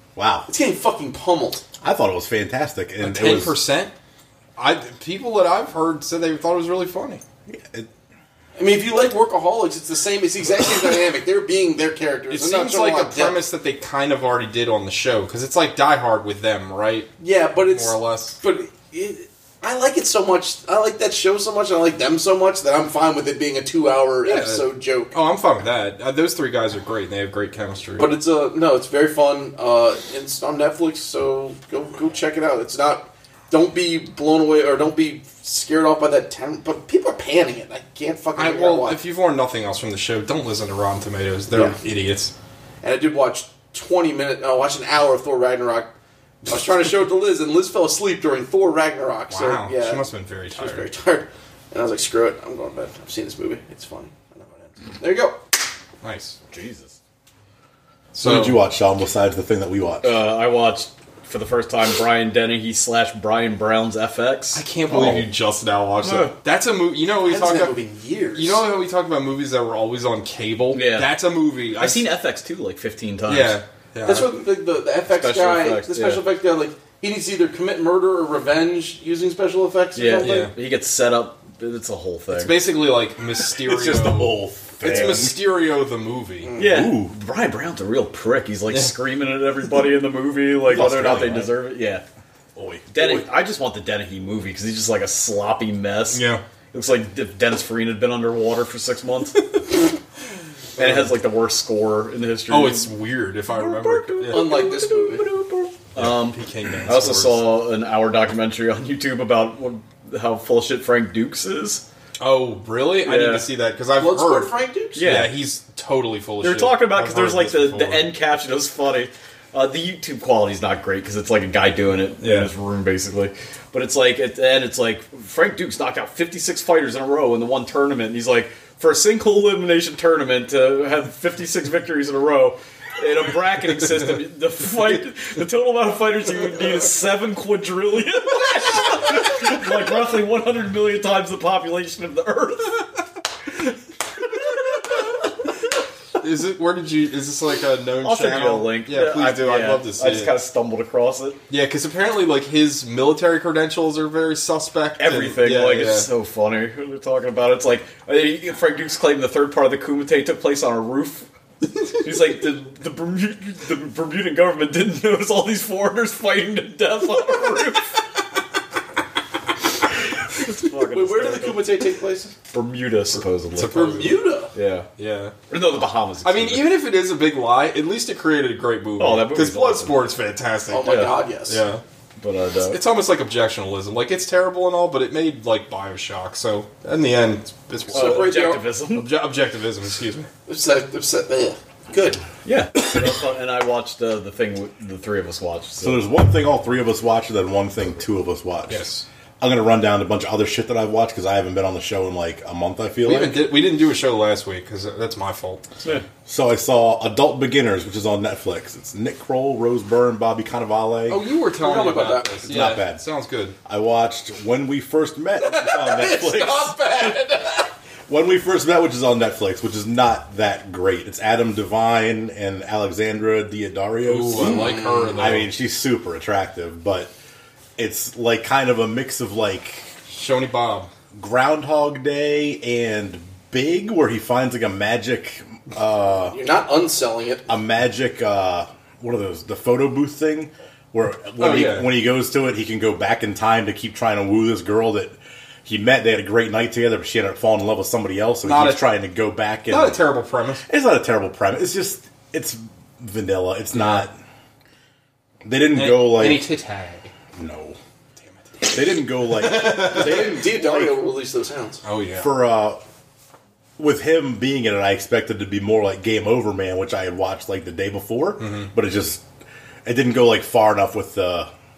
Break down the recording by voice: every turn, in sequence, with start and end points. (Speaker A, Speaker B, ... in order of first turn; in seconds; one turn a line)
Speaker A: 0.1-0.5
Speaker B: 0.5-1.6
Speaker A: 1.8-3.6
Speaker C: 3.0-3.9
Speaker C: 4.6-7.2
Speaker A: 7.5-7.9
Speaker B: 8.6-13.4
Speaker C: 12.3-18.4
Speaker B: 17.2-25.1
Speaker C: 24.2-28.1
Speaker B: 28.0-39.0
Speaker C: 38.3-42.3
Speaker B: 42.8-45.9
Speaker B: 46.5-55.5
Speaker C: 49.3-50.9
Speaker C: 56.0-56.4
Speaker D: 56.5-56.9
Speaker C: 58.1-58.6
Speaker A: 58.2-60.2
Speaker D: 60.0-65.2
Speaker C: 64.5-67.7
Speaker D: 66.0-66.4
Speaker B: 67.1-68.7
Speaker C: 68.3-72.1
Speaker D: 70.7-73.6
Speaker C: 73.3-74.3
Speaker B: 74.0-80.5
Speaker D: 75.1-76.2
Speaker D: 79.9-82.8
Speaker C: 80.2-80.5
Speaker C: 82.3-86.5
Speaker A: 83.5-85.4
Speaker B: 86.4-86.9
Speaker D: 86.6-92.0
Speaker A: 86.6-87.1
Speaker A: 90.7-91.6
Speaker A: 92.5-93.0
Speaker D: 92.9-99.5
Speaker C: 96.1-96.4
Speaker D: 100.8-102.9
Speaker C: 100.8-101.1
Speaker C: 102.5-104.4
Speaker D: 103.5-111.8
Speaker B: 104.3-105.3
Speaker C: 106.0-107.5
Speaker C: 112.2-118.1
Speaker D: 113.0-113.5
Speaker B: 114.0-115.0
Speaker D: 114.9-115.4
Speaker D: 116.4-142.9
Speaker C: 122.2-122.5
Speaker C: 146.2-150.3
Speaker D: 148.0-151.4
Speaker C: 151.5-156.1
Speaker D: 155.0-161.3
Speaker D: 161.9-168.0
Speaker D: 170.4-171.8
Speaker B: 170.8-172.3
Speaker D: 172.5-174.9
Speaker C: 173.5-174.2
Speaker B: 173.7-174.5
Speaker C: 175.0-175.3
Speaker D: 175.5-176.8
Speaker C: 176.2-181.8
Speaker D: 179.0-180.0
Speaker B: 180.7-181.6
Speaker D: 180.8-181.2
Speaker D: 182.2-182.8
Speaker C: 182.6-190.3
Speaker B: 187.9-188.7
Speaker D: 187.9-189.1
Speaker B: 190.5-192.2
Speaker D: 192.4-196.0
Speaker A: 195.8-198.9
Speaker C: 198.7-199.0
Speaker A: 199.4-203.5
Speaker C: 203.0-205.6
Speaker A: 206.2-211.2
Speaker C: 211.1-213.6
Speaker B: 211.2-212.6
Speaker A: 212.5-213.0
Speaker A: 213.6-217.2
Speaker B: 215.4-217.7
Speaker A: 218.1-227.1
Speaker C: 224.0-225.5
Speaker B: 224.3-225.3
Speaker A: 227.8-229.9
Speaker C: 230.1-230.9
Speaker A: 231.1-236.4
Speaker B: 236.2-237.5
Speaker A: 237.5-250.1
Speaker C: 241.4-241.9
Speaker C: 248.4-248.9
Speaker C: 249.7-250.6
Speaker A: 250.7-254.2
Speaker C: 253.7-254.1
Speaker A: 255.4-256.5
Speaker C: 255.7-257.1
Speaker A: 257.4-257.8
Speaker C: 258.2-260.3
Speaker A: 258.6-261.0
Speaker B: 259.8-261.8
Speaker C: 261.8-262.3
Speaker A: 262.2-262.8
Speaker A: 263.8-269.2
Speaker C: 268.4-268.7
Speaker A: 269.8-271.5